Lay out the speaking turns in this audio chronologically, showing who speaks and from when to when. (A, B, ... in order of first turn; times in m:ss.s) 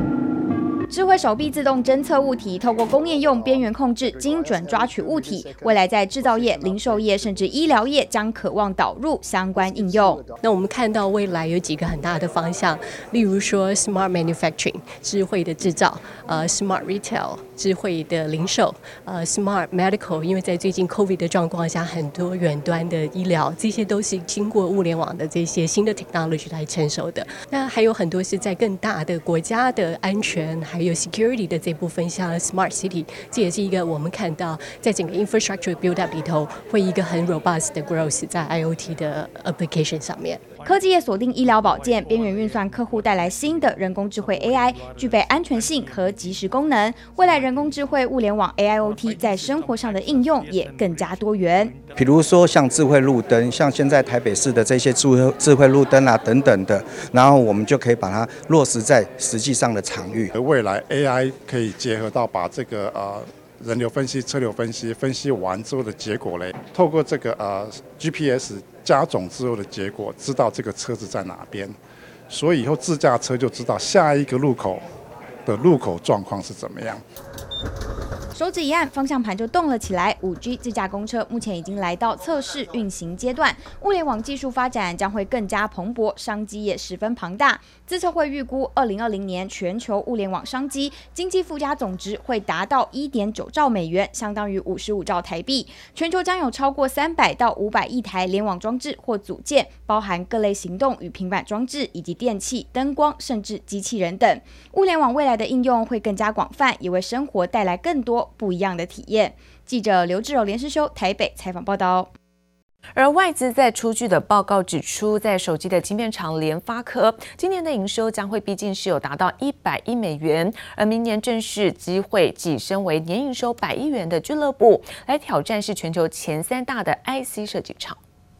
0:00.9-0:10.2 A
0:10.4-0:40.4 B
0:40.6-0:51.8 A
0:51.9-1:00.3 C
1:00.3-1:11.8 D
1:12.3-1:14.8 D
1:15.4-1:17.0 D
1:18.3-1:52.1 A
1:53.0-2:08.0 E